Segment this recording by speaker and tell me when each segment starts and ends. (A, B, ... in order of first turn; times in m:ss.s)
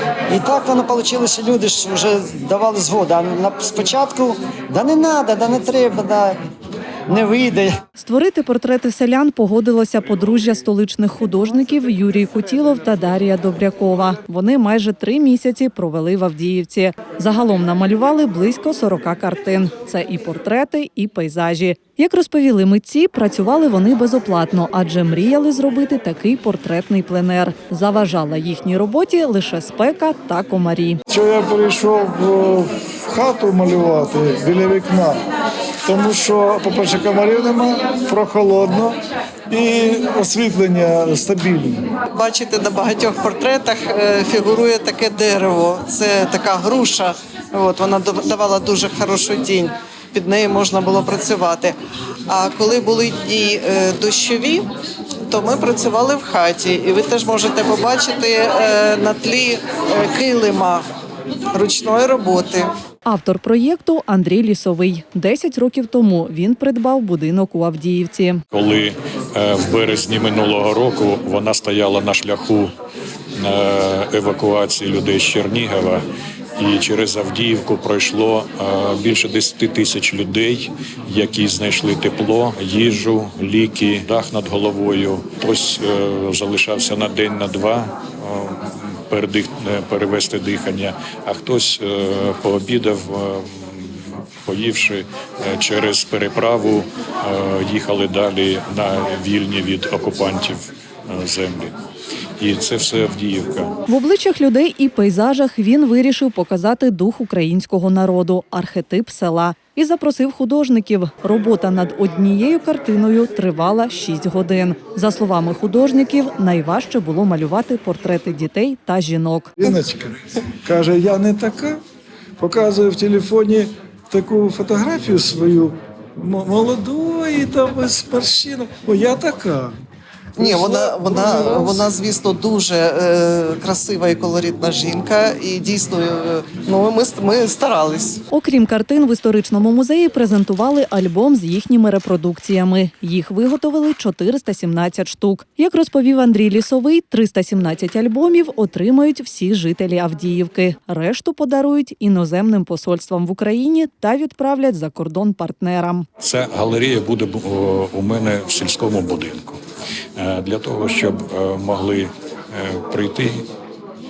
0:00.3-0:06.4 A
0:07.1-0:07.7 A
0:08.0-0:31.0 B
0:31.1-0:35.2 C
0:35.9-0:39.0 C
0:39.5-0:41.9 C
0:42.1-0:51.8 D
0:52.3-0:54.7 D
0:55.3-1:00.8 D
1:01.5-1:02.7 D
1:03.1-1:08.4 B
1:08.5-1:12.7 E
1:13.4-1:16.0 E
1:16.6-1:41.7 E
1:42.4-1:43.7 E
1:43.9-1:59.6 B
1:59.6-2:01.8 C
2:02.4-2:09.8 C
2:10.4-2:18.2 D
2:10.4-2:11.8 C
2:18.3-2:36.0 B
2:36.2-2:39.6 E
2:40.2-2:43.4 E